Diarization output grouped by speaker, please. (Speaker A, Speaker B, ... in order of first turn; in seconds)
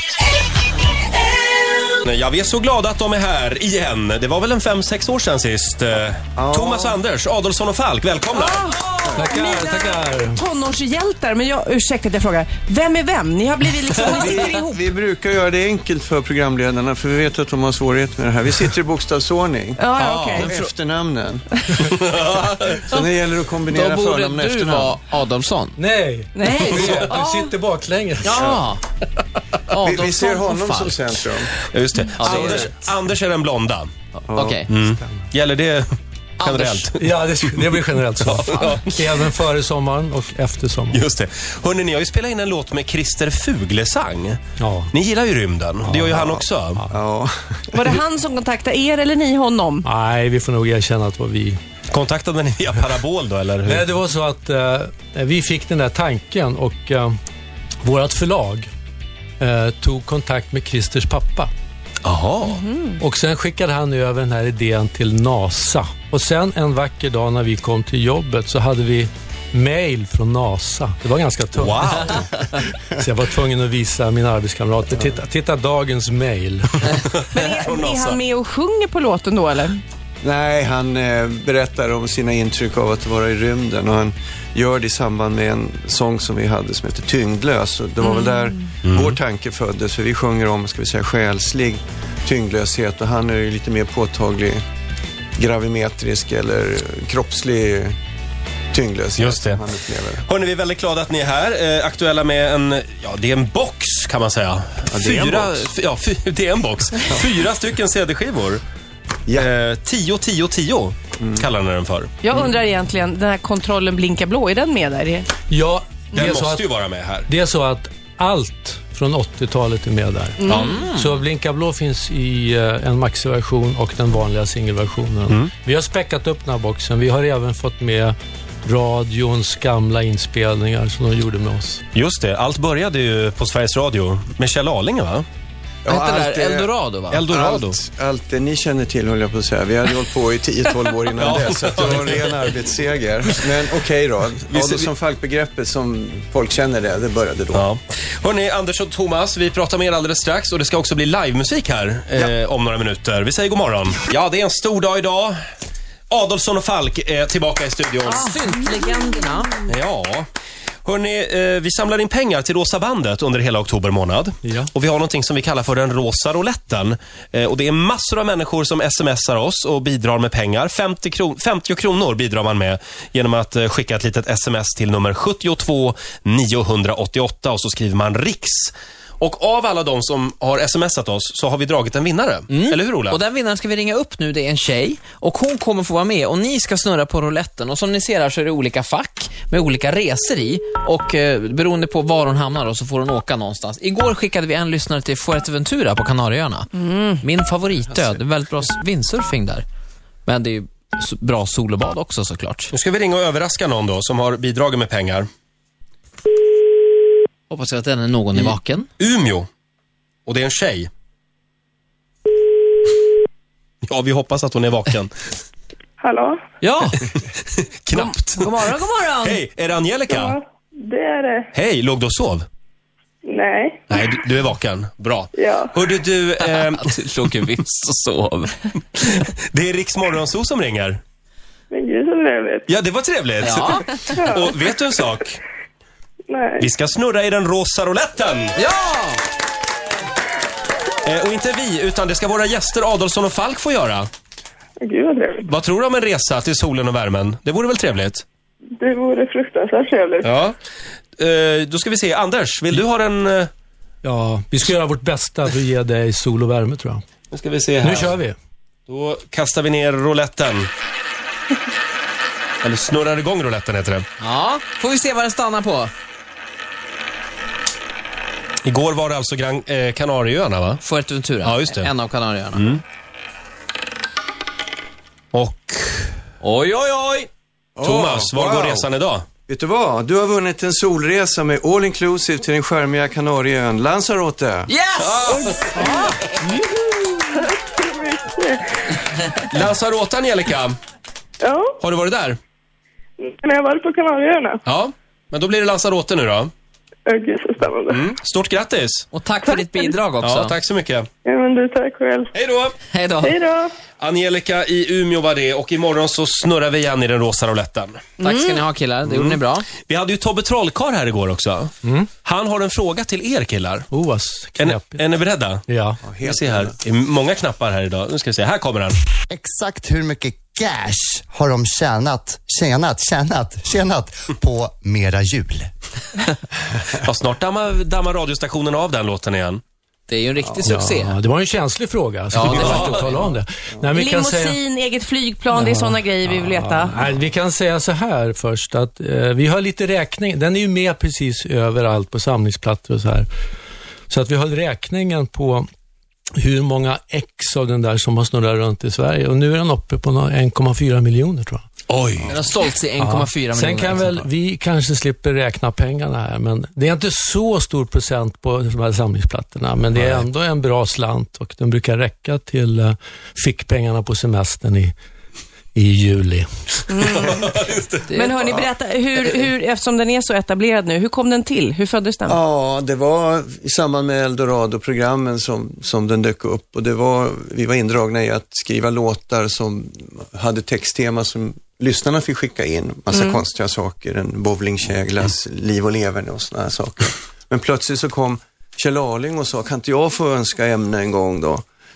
Speaker A: 2.0-8.7, 20.0-20.6, 21.8-22.8, 31.7-33.9, 34.7-35.9, 36.4-37.0, 38.2-39.0, 40.9-44.4, 44.9-46.8, 51.9-53.8, 62.0-62.6, 71.6-72.2, 77.0-78.2, 88.8-89.2, 99.2-99.6, 100.2-108.6, 109.3-112.1, 116.1-117.3, 131.9-135.2, 137.1-137.8, 141.2-142.3, 144.5-144.9, 147.5-155.4, 156.1-158.3, 159.7-160.2, 160.8-183.2, 202.7-205.3, 208.4-209.5, 210.2-210.9, 213.9-215.1, 217.5-220.4, 221.5-222.5, 223.9-227.4, 229.1-231.0, 232.7-235.4, 236.6-238.6, 241.1-244.1, 245.4-248.2, 250.2-250.6, 251.2-253.5, 257.3-258.1, 258.9-260.7, 262.6-264.1, 268.6-270.8, 271.4-271.9, 272.5-272.8, 275.3-276.2, 277.8-279.2, 285.0-285.9, 289.5-290.8, 291.8-292.4, 294.7-296.5, 297.9-299.1, 300.2-301.1, 302.3-302.8, 304.0-308.0, 309.1-311.7, 312.2-313.9, 314.6-315.6, 316.2-319.0, 327.0-329.6, 332.5-333.1, 351.9-352.4, 367.0-368.3
Speaker B: 6.3-7.0, 14.1-19.8, 20.3-21.5, 22.7-25.0, 28.3-28.6, 29.8-31.5, 34.3-34.6, 46.1-48.0, 80.2-94.6, 95.3-98.0, 98.7-100.2, 104.9-105.7, 111.2-111.5, 135.8-136.7, 137.3-147.7, 277.8-278.9, 279.5-284.7, 316.0-316.8, 372.2-391.6
Speaker C: 8.3-14.7, 19.8-20.5, 26.3-27.5, 47.7-49.9, 62.4-63.0, 77.3-79.8, 88.0-88.5, 112.2-115.3, 120.4-120.8, 196.8-197.2, 217.9-219.4, 308.2-308.6, 333.9-337.0, 366.9-367.6, 368.1-372.4, 383.1-383.4
Speaker D: 9.1-10.4, 25.8-28.4, 37.0-41.0, 44.6-44.9, 45.8-46.9, 49.8-51.6, 53.6-57.1, 57.8-58.7, 59.4-61.5, 63.0-77.0, 115.5-116.7, 117.3-131.8, 164.4-164.7, 254.0-257.0, 257.8-258.4, 313.9-315.0, 315.7-316.0, 330.6-334.6, 335.5-343.3, 344.1-345.7, 346.4-351.7, 353.0-364.9, 365.7-366.5
Speaker E: 23.7-25.8, 26.4-27.1, 28.2-28.8, 29.7-31.0, 32.2-32.7, 34.3-34.7, 36.4-36.9, 120.5-121.1, 135.8-137.2, 158.0-159.6, 182.5-199.7, 200.2-202.7, 207.5-208.9, 216.6-217.1, 226.4-229.1, 233.4-234.0, 238.6-239.2, 264.2-265.9, 270.8-272.7, 276.4-277.3, 284.7-286.4, 299.1-300.6, 302.9-303.4, 308.2-309.7, 330.1-331.2, 332.3-333.3, 352.3-354.2
Speaker F: 216.0-216.4, 220.1-221.5, 223.2-224.0, 225.4-225.8, 231.7-232.7, 234.1-234.6, 236.3-236.7, 244.8-245.4, 248.8-250.3, 285.3-286.0, 287.3-288.6, 291.4-291.8, 293.2-294.6, 297.1-298.1, 299.5-299.9, 301.2-302.3, 303.2-303.7
Speaker G: 319.5-322.2, 322.7-324.0, 324.9-325.5